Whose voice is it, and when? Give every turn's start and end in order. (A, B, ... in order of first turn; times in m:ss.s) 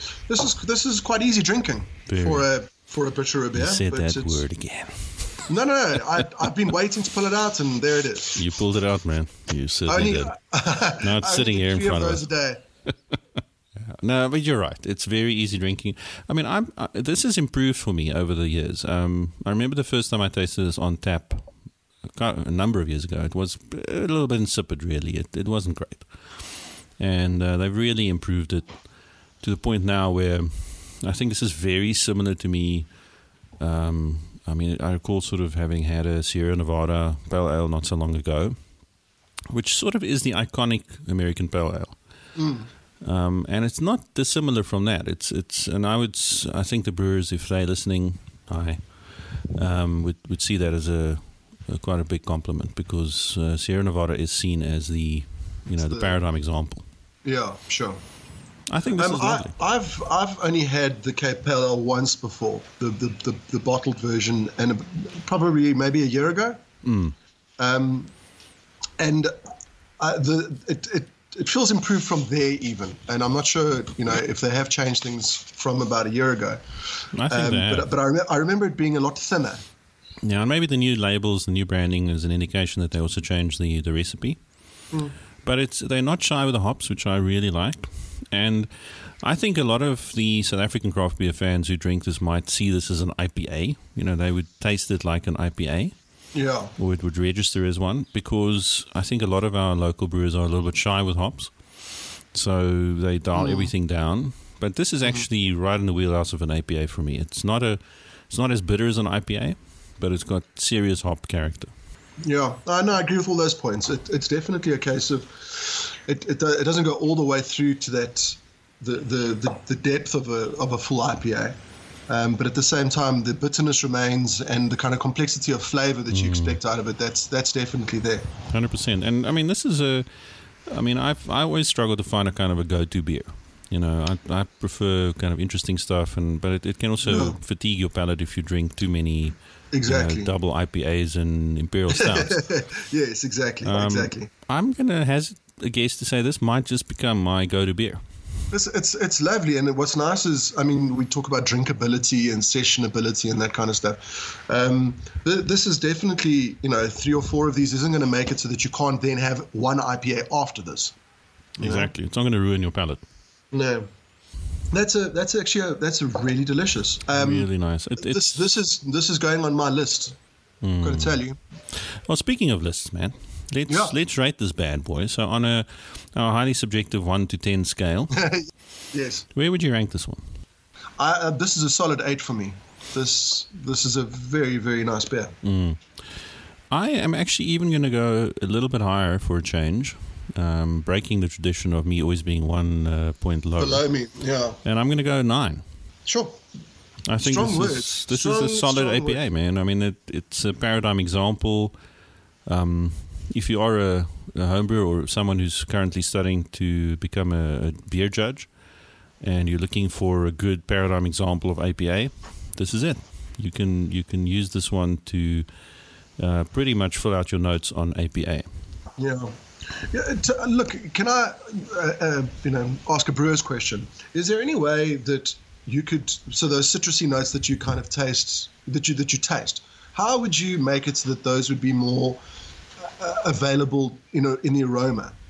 0:00.3-0:04.4 A
0:02.1-0:02.5 B
0:03.5-0:05.5 B
0:05.5-0:08.4 A
0:08.3-0:10.3 B
0:09.9-0:12.6 A
0:11.0-0:12.2 B
0:13.8-0:33.0 B
0:33.6-0:38.8 B
0:39.5-0:42.0 B
0:42.4-0:42.7 A
0:43.0-0:56.8 B
0:55.8-0:56.1 A
0:57.2-0:58.0 A
0:58.7-0:59.6 B
0:59.0-1:06.6 A
1:06.8-1:07.1 B
1:07.6-1:08.1 A
1:09.0-1:09.3 A
1:10.0-1:19.6 A
1:17.1-1:17.9 B
1:20.2-1:24.9 B
1:25.4-1:36.2 B
1:36.3-1:36.7 A
1:36.8-1:51.7 B
1:43.3-1:43.7 A
1:52.2-2:01.5 A
2:02.1-2:08.3 A
2:06.1-2:06.6 B
2:08.5-2:22.5 B
2:17.0-2:17.4 A
2:19.7-2:20.3 A
2:21.9-2:24.3 A
2:23.6-2:28.1 B
2:28.5-2:40.9 A
2:41.6-2:41.9 A
2:41.6-2:43.0 B
2:43.5-2:43.9 A
2:44.7-2:50.2 A
2:47.1-2:48.4 B
2:50.6-2:58.3 B
2:50.8-2:51.4 A
2:53.7-2:53.9 A
2:58.2-2:59.2 A
2:59.3-3:00.2 B
3:01.0-3:05.4 A
3:05.4-3:06.1 B
3:06.7-3:13.8 B
3:13.6-3:14.6 A
3:14.6-3:15.6 B
3:16.0-3:16.4 A
3:17.1-3:21.8 B
3:17.2-3:19.2 A
3:22.4-3:35.5 B
3:36.2-3:38.5 B
3:39.0-3:52.2 A
3:52.8-3:55.1 A